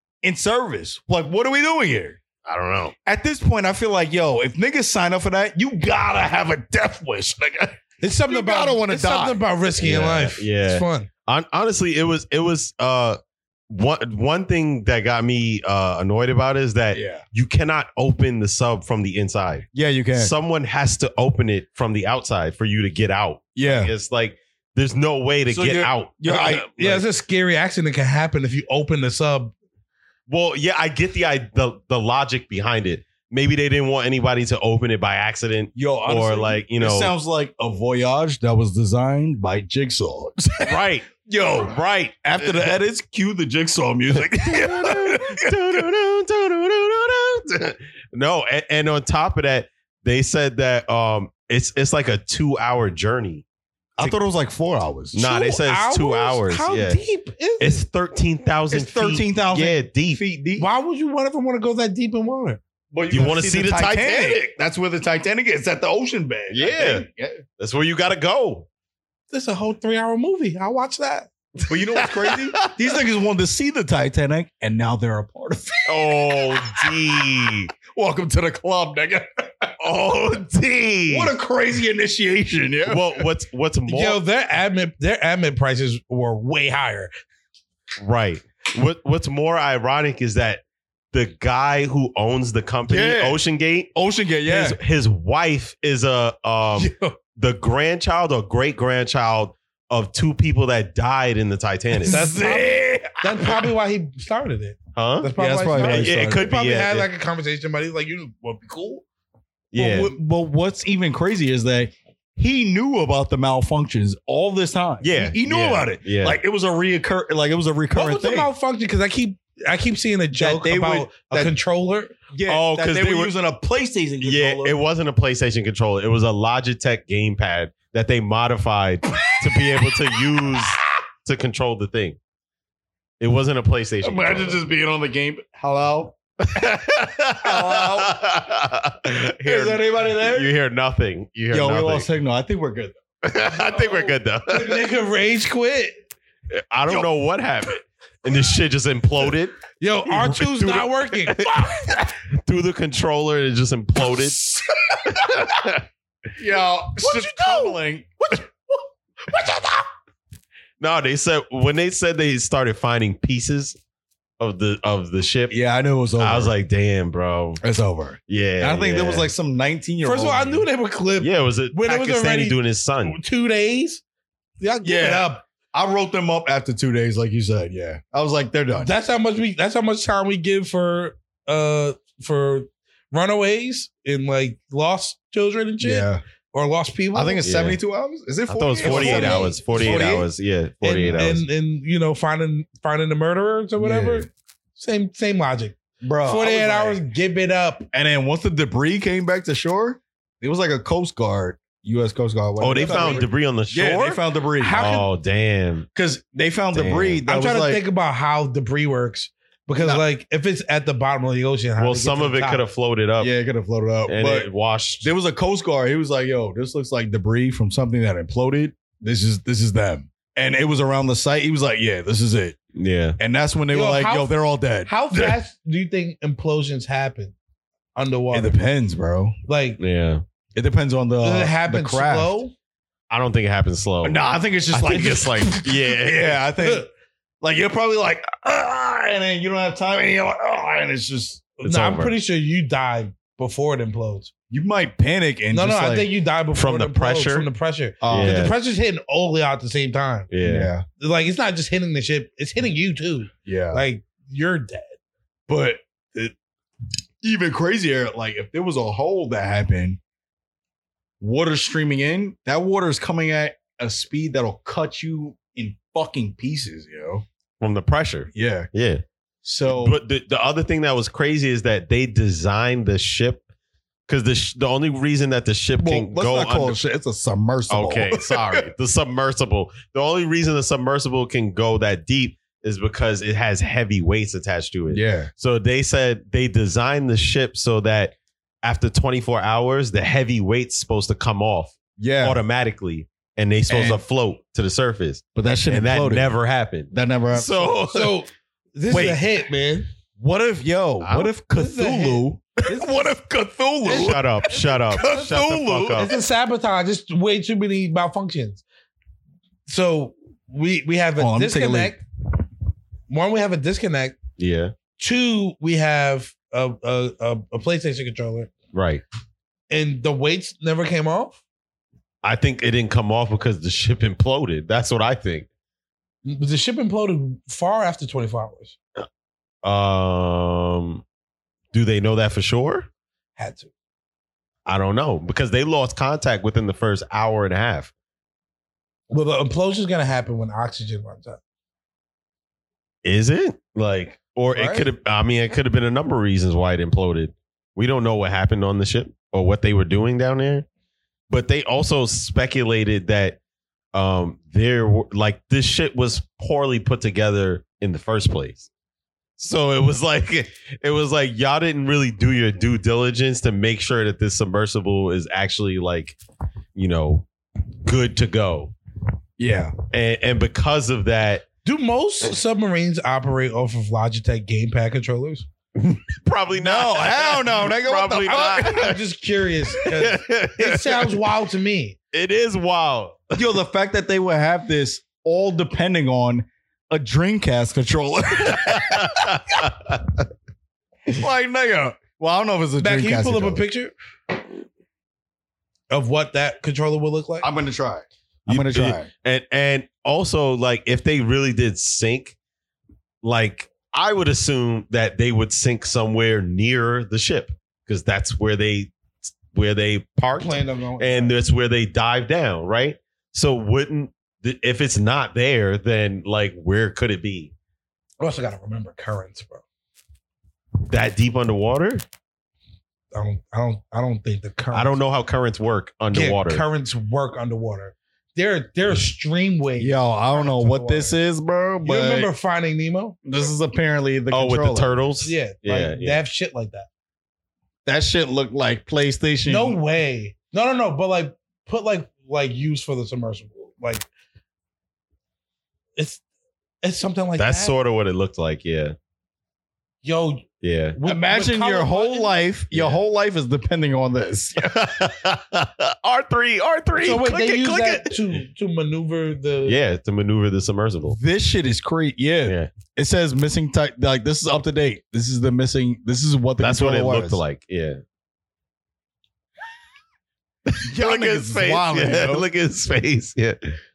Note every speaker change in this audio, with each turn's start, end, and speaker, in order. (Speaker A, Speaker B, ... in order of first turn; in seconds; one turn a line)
Speaker A: 0.2-2.2
Speaker B: 2.4-2.9
Speaker A: 3.0-9.4
Speaker C: 8.0-11.1
Speaker B: 9.8-27.0
Speaker A: 16.9-17.2
Speaker A: 19.7-20.3
Speaker A: 23.6-23.9
Speaker A: 25.5-26.7
Speaker C: 26.8-29.5
Speaker B: 30.3-37.1
Speaker A: 35.7-45.6
Speaker B: 40.6-42.7
Speaker B: 44.1-53.4
Speaker A: 54.0-55.2
Speaker B: 55.1-57.0
Speaker C: 55.2-57.8
Speaker B: 57.6-60.2
Speaker A: 58.7-60.7
Speaker C: 60.6-62.6
Speaker A: 62.9-67.4
Speaker B: 63.1-64.4
Speaker B: 66.5-67.0
Speaker B: 67.6-68.7
Speaker C: 69.3-71.3
Speaker A: 71.7-76.9
Speaker B: 71.9-72.8
Speaker B: 75.9-77.7
Speaker A: 77.9-79.7
Speaker B: 79.8-81.3
Speaker A: 81.1-83.2
Speaker B: 82.8-84.2
Speaker C: 83.9-87.1
Speaker B: 88.0-93.9
Speaker A: 92.9-93.4
Speaker A: 93.9-94.8
Speaker B: 94.4-102.2
Speaker C: 96.8-97.1
Speaker A: 102.0-103.7
Speaker C: 102.0-109.0
Speaker B: 104.9-107.1
Speaker A: 105.3-106.5
Speaker B: 109.7-110.1
Speaker A: 109.7-118.5
Speaker B: 115.0-116.4
Speaker C: 117.9-122.1
Speaker A: 120.3-121.5
Speaker A: 122.3-124.8
Speaker B: 122.5-123.3
Speaker B: 124.2-132.2
Speaker B: 133.2-134.6
Speaker A: 134.0-136.1
Speaker B: 136.4-142.1
Speaker A: 137.4-138.2
Speaker A: 139.4-140.5
Speaker A: 141.5-143.0
Speaker B: 143.2-144.9
Speaker C: 143.5-146.0
Speaker B: 146.5-155.8
Speaker C: 149.8-152.0
Speaker A: 156.4-158.1
Speaker C: 157.0-157.8
Speaker C: 159.3-159.8
Speaker B: 160.8-163.8
Speaker B: 164.4-165.6
Speaker A: 165.5-166.5
Speaker B: 166.2-167.6
Speaker A: 167.6-170.7
Speaker B: 168.3-169.3
Speaker C: 170.0-174.0
Speaker B: 171.2-173.2
Speaker C: 174.6-175.4
Speaker A: 174.8-178.9
Speaker C: 178.8-187.4
Speaker A: 185.8-186.2
Speaker A: 187.1-190.3
Speaker B: 187.4-187.8
Speaker B: 188.5-191.4
Speaker C: 188.8-190.0
Speaker C: 190.8-197.9
Speaker A: 193.8-194.3
Speaker A: 196.0-197.0
Speaker A: 197.9-204.8
Speaker B: 202.6-204.2
Speaker C: 202.8-203.2
Speaker C: 204.6-205.1
Speaker B: 204.7-205.9
Speaker A: 205.9-207.8
Speaker B: 206.7-207.2
Speaker C: 207.3-212.6
Speaker A: 209.8-210.0
Speaker B: 211.8-213.3
Speaker A: 213.2-214.5
Speaker B: 214.1-215.1
Speaker A: 215.0-222.6
Speaker B: 222.7-223.2
Speaker A: 223.2-225.4
Speaker C: 223.7-227.3
Speaker C: 227.9-228.6
Speaker A: 228.3-229.3
Speaker C: 229.5-229.8
Speaker B: 229.8-230.2
Speaker A: 230.5-232.4
Speaker C: 231.2-232.5
Speaker B: 233.1-236.4
Speaker A: 234.0-236.8
Speaker C: 236.6-236.9
Speaker A: 237.4-241.4
Speaker C: 241.6-244.3
Speaker B: 241.6-242.1
Speaker A: 244.5-246.1
Speaker C: 245.5-250.3
Speaker B: 246.5-247.5
Speaker A: 248.0-248.5
Speaker B: 248.1-248.5
Speaker B: 250.3-250.7
Speaker A: 250.4-250.8
Speaker C: 251.0-254.9
Speaker A: 253.4-253.8
Speaker A: 255.5-256.3
Speaker A: 257.2-260.0
Speaker A: 261.2-267.2
Speaker B: 267.6-269.0
Speaker A: 268.3-268.7
Speaker A: 269.4-270.0
Speaker B: 269.7-273.4
Speaker B: 274.1-276.8
Speaker A: 275.8-278.7
Speaker B: 277.7-298.1
Speaker A: 284.9-285.3
Speaker A: 292.0-292.4
Speaker A: 293.7-294.0
Speaker A: 295.3-296.3
Speaker A: 296.9-297.8
Speaker C: 297.9-299.9
Speaker A: 298.9-299.2
Speaker A: 300.2-306.1
Speaker B: 301.0-301.3
Speaker C: 301.5-303.1
Speaker C: 303.8-305.2
Speaker B: 303.9-306.1
Speaker C: 305.9-308.6
Speaker C: 309.7-312.0
Speaker A: 311.2-311.9
Speaker C: 313.1-314.2
Speaker B: 314.4-314.7
Speaker C: 315.0-318.5
Speaker B: 318.7-319.0
Speaker C: 319.7-321.4
Speaker B: 322.2-325.5
Speaker C: 326.2-328.8
Speaker B: 329.6-331.0
Speaker B: 331.7-332.9
Speaker C: 333.4-333.7
Speaker B: 334.6-337.9
Speaker C: 339.1-341.4
Speaker B: 343.0-350.6
Speaker C: 344.5-344.9
Speaker B: 351.3-353.4
Speaker B: 353.9-358.7
Speaker B: 359.4-366.2
Speaker B: 366.7-367.3
Speaker B: 367.8-368.7
Speaker A: 369.4-369.7
Speaker B: 369.9-371.4
Speaker C: 371.6-375.5
Speaker B: 375.8-379.0
Speaker A: 376.6-378.9
Speaker C: 378.3-382.0
Speaker B: 379.8-381.1
Speaker B: 382.1-383.4
Speaker A: 383.4-389.4
Speaker B: 388.4-390.0
Speaker A: 391.1-393.6
Speaker C: 392.8-393.9
Speaker C: 395.9-397.5
Speaker A: 397.4-399.1
Speaker B: 398.5-402.3
Speaker B: 403.2-417.5
Speaker C: 410.4-411.3
Speaker C: 418.2-419.6
Speaker B: 420.9-422.0
Speaker C: 423.1-425.0
Speaker B: 424.7-426.6
Speaker C: 426.1-431.1
Speaker A: 429.8-432.3
Speaker C: 431.8-433.1
Speaker A: 433.2-435.0
Speaker B: 434.3-436.2
Speaker C: 435.2-436.9
Speaker A: 437.9-439.8
Speaker C: 439.4-444.1
Speaker C: 445.9-446.2
Speaker C: 446.8-447.7
Speaker B: 447.4-448.9
Speaker C: 450.0-452.4
Speaker B: 450.6-451.0
Speaker A: 451.0-454.7
Speaker B: 452.7-453.0
Speaker B: 454.6-458.4
Speaker C: 457.0-459.8
Speaker B: 459.6-461.2
Speaker A: 461.1-467.4
Speaker B: 462.4-462.7
Speaker B: 466.6-468.0
Speaker B: 470.7-473.8
Speaker A: 470.8-472.5